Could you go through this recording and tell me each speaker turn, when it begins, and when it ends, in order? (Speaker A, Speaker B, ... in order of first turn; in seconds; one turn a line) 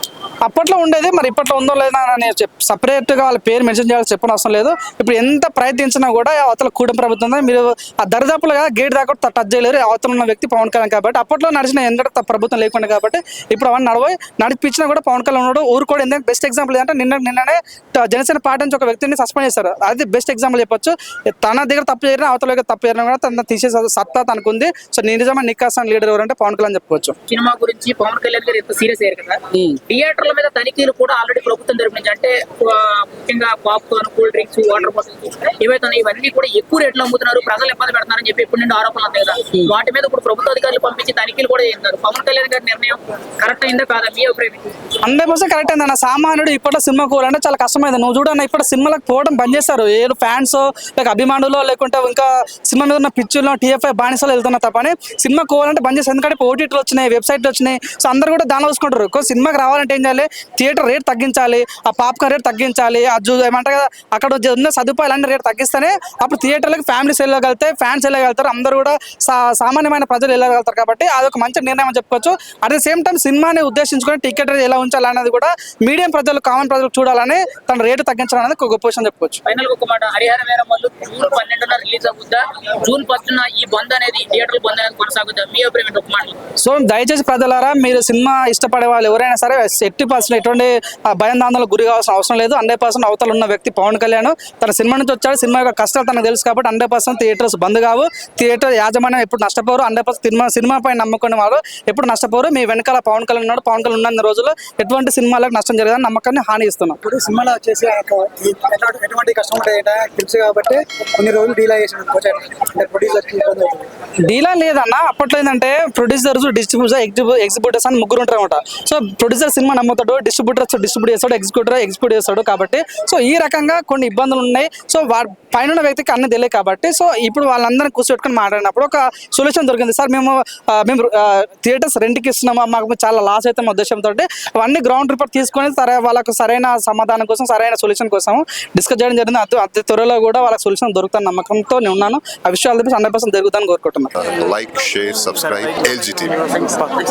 Speaker A: 0.5-27.2
Speaker B: 27.3-44.8
Speaker A: 29.5-29.8
Speaker A: 45.0-79.4
Speaker B: 79.5-86.4
Speaker A: 86.6-107.0
Speaker C: 107.0-113.9
Speaker A: 114.3-144.1
Speaker D: 144.2-146.7